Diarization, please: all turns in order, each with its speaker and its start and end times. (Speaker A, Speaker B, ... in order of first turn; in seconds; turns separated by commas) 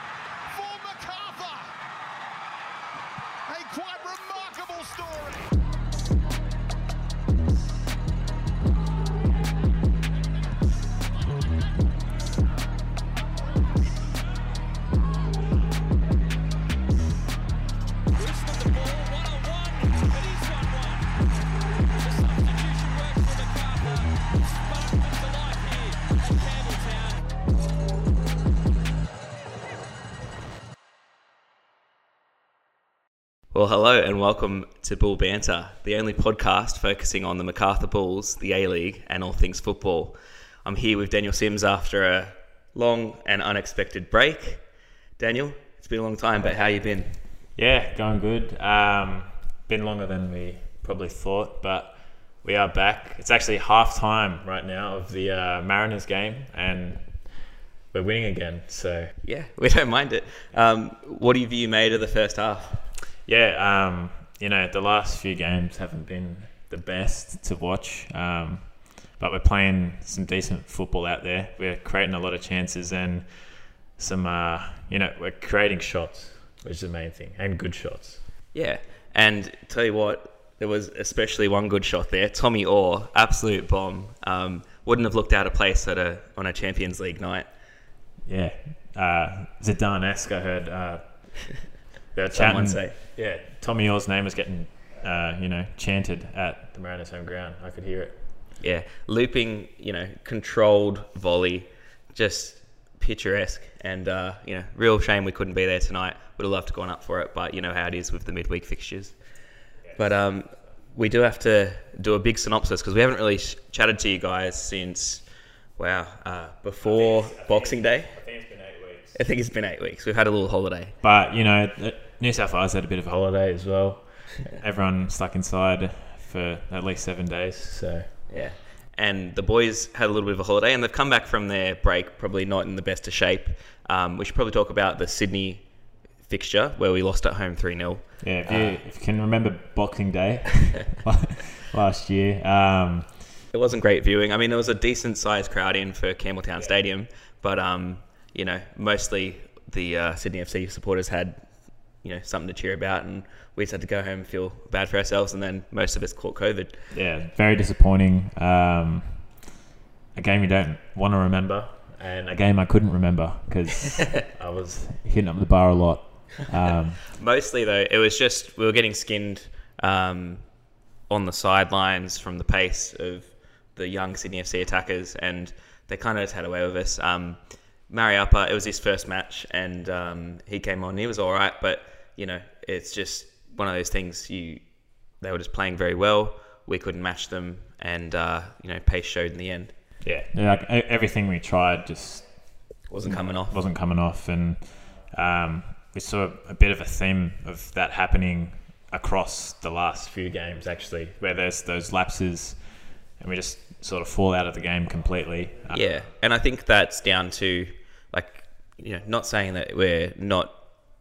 Speaker A: 0.5-1.8, Speaker A: 3.5-5.5, Speaker A: 18.2-21.1, Speaker A: 22.0-24.1, Speaker A: 24.7-26.0, Speaker A: 26.5-27.2, Speaker B: 33.5-44.6, Speaker B: 45.2-47.2, Speaker C: 47.5-59.1, Speaker B: 59.2-62.9, Speaker C: 63.2-78.2, Speaker B: 78.5-87.5, Speaker C: 88.2-98.2, Speaker B: 92.3-93.0, Speaker B: 98.6-109.2, Speaker C: 109.8-110.1, Speaker B: 109.9-115.2, Speaker B: 115.8-118.2, Speaker C: 116.8-119.2, Speaker B: 119.1-121.0, Speaker C: 121.0-128.2, Speaker B: 128.3-135.7, Speaker B: 136.2-138.8, Speaker C: 138.2-143.3, Speaker B: 143.5-156.8, Speaker C: 156.9-159.4, Speaker C: 160.1-167.0, Speaker B: 167.1-170.5, Speaker B: 171.1-184.6, Speaker B: 185.2-189.7, Speaker C: 190.0-205.8, Speaker B: 192.9-193.6, Speaker B: 205.7-210.6